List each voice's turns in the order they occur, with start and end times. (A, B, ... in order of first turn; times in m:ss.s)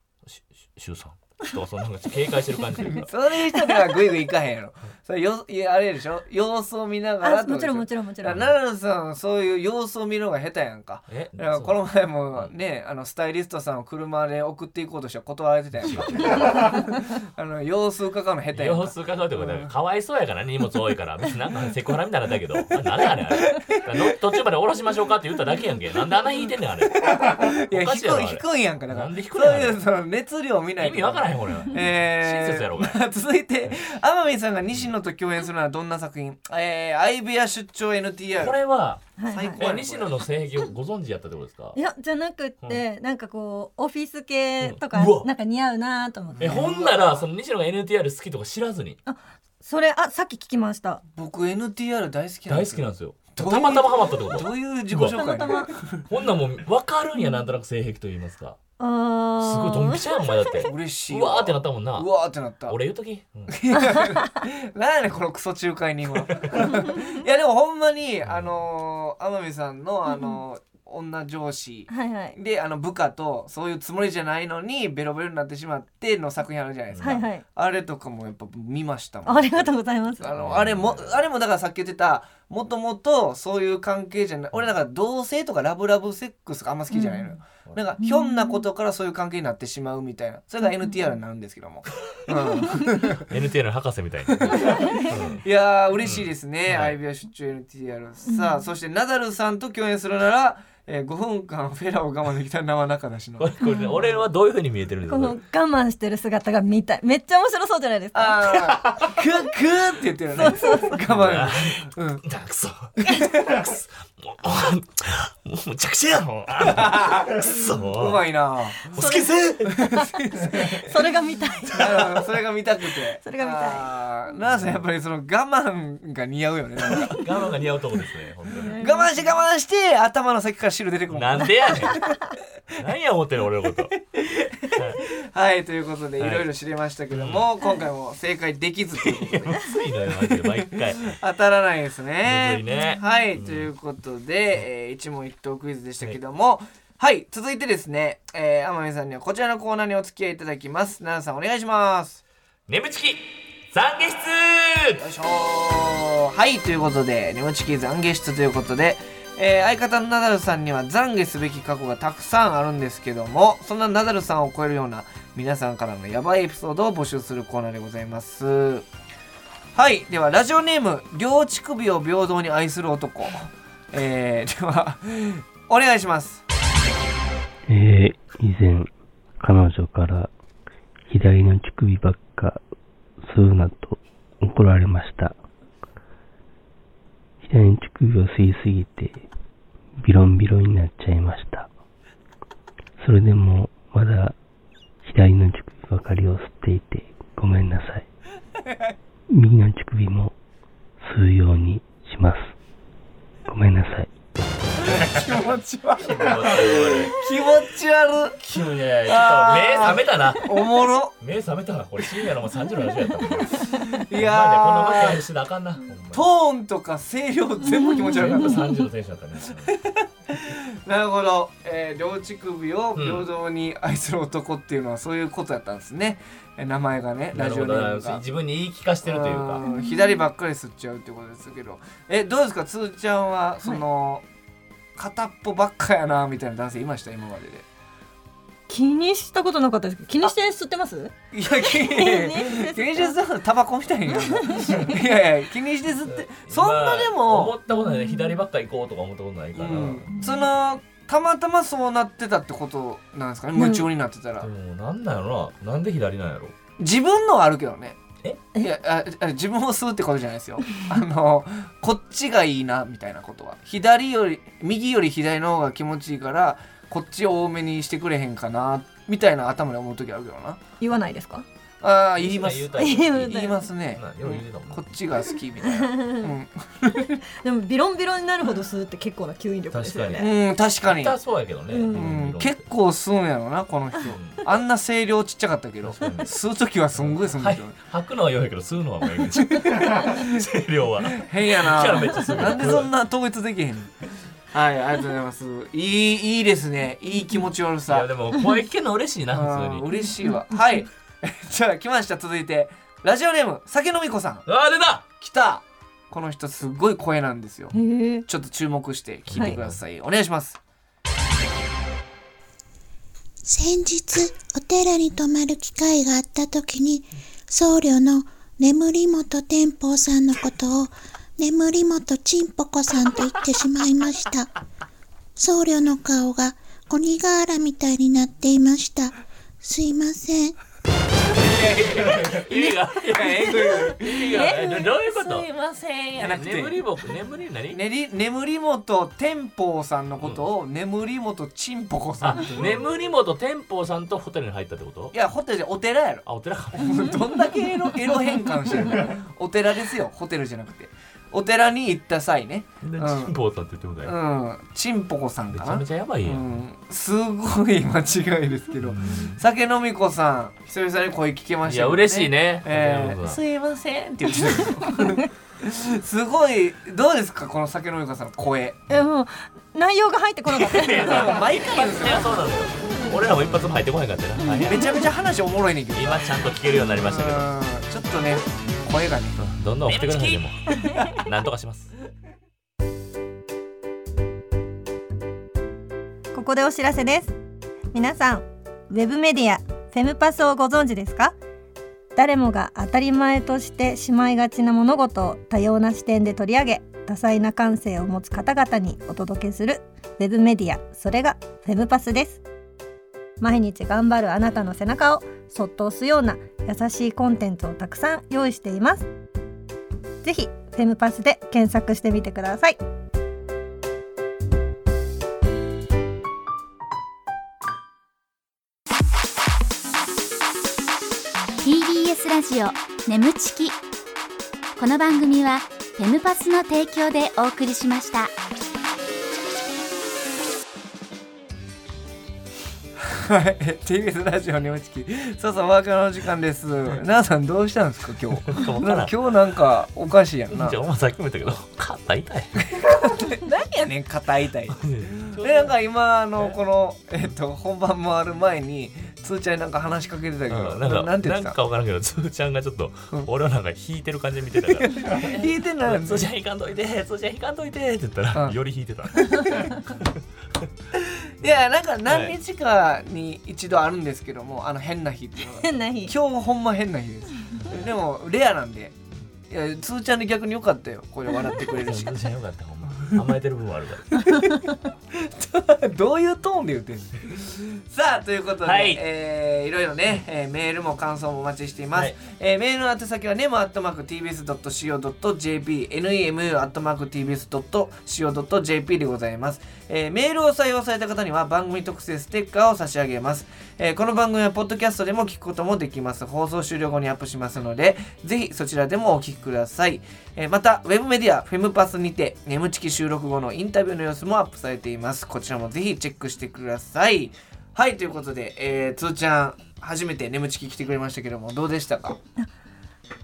0:00.2-0:03.1 A
0:02.9-0:19.7 B
0:03.5-0:03.9 C
0:07.2-0:08.4 C
0:08.2-0:08.5 A
0:11.1-0:11.8 A
0:15.8-0:16.8 A
0:18.5-0:29.8 A
0:23.4-0:23.8 B
0:27.0-0:38.6 B
0:30.8-0:33.0 A
0:38.4-0:39.0 A
0:39.2-0:39.6 C
0:39.3-0:40.2 B
0:39.6-0:41.8 A
0:41.8-0:46.6 C
0:44.6-0:45.3 A
0:46.4-0:47.2 B
0:46.4-0:49.0 A
0:49.1-0:51.0 C
0:51.1-0:56.1 B
0:52.5-0:55.2 A
0:55.0-0:55.7 C
0:56.1-0:58.6 A
0:58.8-1:00.7 C
0:59.4-1:02.1 A
1:00.6-1:02.8 B
1:02.7-1:03.5 A
1:03.5-1:33.3 B
1:03.8-1:04.2 C
1:06.3-1:06.6 A
1:06.5-1:07.1 C
1:08.3-1:08.6 A
1:10.1-1:10.4 C
1:11.9-1:12.4 C
1:16.9-1:17.2 A
1:17.0-1:17.4 C
1:19.3-1:20.3 C
1:20.4-1:21.2 A
1:26.9-1:27.4 C
1:28.0-1:28.6 C
1:30.6-1:31.0 C
1:32.6-1:33.1 C
1:33.1-1:35.4 A
1:34.3-1:34.8 B
1:34.5-1:35.2 C
1:35.4-1:44.2 B
1:36.0-1:37.0 A
1:38.3-1:38.7 C
1:43.4-1:45.4 A
1:43.6-1:43.9 C
1:45.1-1:48.4 C
1:48.1-1:52.2 B
1:50.4-1:51.0 C
1:51.1-1:53.0 A
1:53.0-1:53.7 B
1:53.5-1:58.2 A
1:56.7-2:00.9 B
1:58.9-2:02.0 C
1:59.0-1:59.2 A
2:01.8-2:07.3 B
2:03.2-2:03.9 C
2:04.5-2:04.8 A
2:06.8-2:08.8 A
2:08.5-2:09.3 C
2:08.8-2:12.0 B
2:11.1-2:12.2 A
2:12.8-2:14.0 A
2:13.9-2:32.2 B
2:14.7-2:15.0 A
2:16.2-2:16.5 A
2:17.1-2:17.5 A
2:19.0-2:21.2 A
2:22.2-2:23.7 A
2:22.7-2:23.0 C
2:32.7-2:35.0 A
2:35.0-2:48.9 B
2:49.8-2:56.4 B
2:57.7-3:00.3 D
3:01.1-3:02.6 D
3:03.2-3:05.4 D
3:07.4-3:09.3 D
3:10.0-3:11.7 D
3:13.0-3:14.4 D
3:15.0-3:18.1 D
3:19.3-3:20.4 D
3:21.0-3:22.5 D
3:23.5-3:24.1 D
3:24.8-3:28.4 B
3:24.9-3:25.5 A
3:26.0-3:27.1 A
3:28.4-3:30.5 A
3:29.1-3:31.1 B
3:31.2-3:36.3 A
3:33.9-3:35.2 B
3:36.1-3:38.6 B
3:37.8-3:38.6 C
3:38.1-3:39.8 A
3:39.7-3:48.2 B
3:43.0-3:43.3 A
3:47.3-3:49.6 A
3:49.0-3:54.2 B
3:49.6-3:50.2 C
3:55.0-3:57.6 B
3:58.7-4:03.2 C
4:01.3-4:07.6 B
4:04.1-4:05.0 C
4:06.1-4:10.1 A
4:07.7-4:08.3 C
4:09.6-4:14.5 B
4:10.1-4:10.4 C
4:13.6-4:13.9 C
4:14.4-4:16.6 A
4:16.8-4:18.0 B
4:18.6-4:30.6 B
4:30.8-4:31.4 C
4:31.8-4:37.2 B
4:32.2-4:34.8 A
4:32.8-4:33.7 C
4:35.6-4:36.3 C
4:37.4-4:40.3 C
4:39.7-4:40.3 A
4:40.2-4:41.2 B
4:40.9-4:42.6 A
4:41.7-4:42.1 C
4:41.9-4:47.8 B
4:44.1-4:44.4 A
4:45.8-4:46.3 A
4:46.9-4:52.9 A
4:49.4-4:50.4 B
4:51.1-4:58.1 B
4:57.9-5:00.0 A
4:59.3-5:04.5 B
5:00.0-5:00.4 C
5:04.5-5:05.1 A
5:05.2-5:10.6 B
5:07.7-5:08.2 C
5:09.3-5:09.8 A
5:13.4-5:24.5 E
5:25.4-5:30.6 E
5:31.3-5:36.8 B
5:31.3-5:35.5 A
5:36.2-5:37.8 A
5:37.7-5:42.8 B
5:42.2-5:45.1 A
5:45.1-5:53.4 B
5:46.3-5:47.2 A
5:52.8-5:54.2 A
5:54.0-6:08.8 B
5:55.5-5:56.6 A
5:58.8-5:59.4 A
6:01.6-6:03.4 A
6:08.9-6:11.4 C
6:10.5-6:14.9 A
6:11.0-6:12.3 B
6:14.4-6:15.0 C
6:14.6-6:21.2 B
6:15.9-6:17.5 A
6:19.4-6:21.9 A
6:26.3-6:27.4 C
6:27.9-6:31.4 C
6:32.1-6:42.4 C
6:43.4-6:49.1 C
6:50.2-6:52.8 C
7:01.6-7:03.8 F
7:04.8-7:08.3 F
7:13.0-7:20.8 B
7:18.4-7:19.3 A
7:20.5-7:22.6 A
7:22.7-7:31.6 B
7:24.7-7:25.8 A
7:26.4-7:26.6 A
7:30.5-7:40.2 A
7:34.7-7:36.3 B
7:39.2-7:39.7 C
7:40.9-7:49.0 B
7:42.1-7:42.4 A
7:45.6-7:46.1 C
7:49.5-7:52.2 B
7:51.6-7:54.2 A
7:54.2-7:54.6 B
7:54.2-7:54.7 C
7:55.1-8:32.2 B
7:58.6-7:59.0 A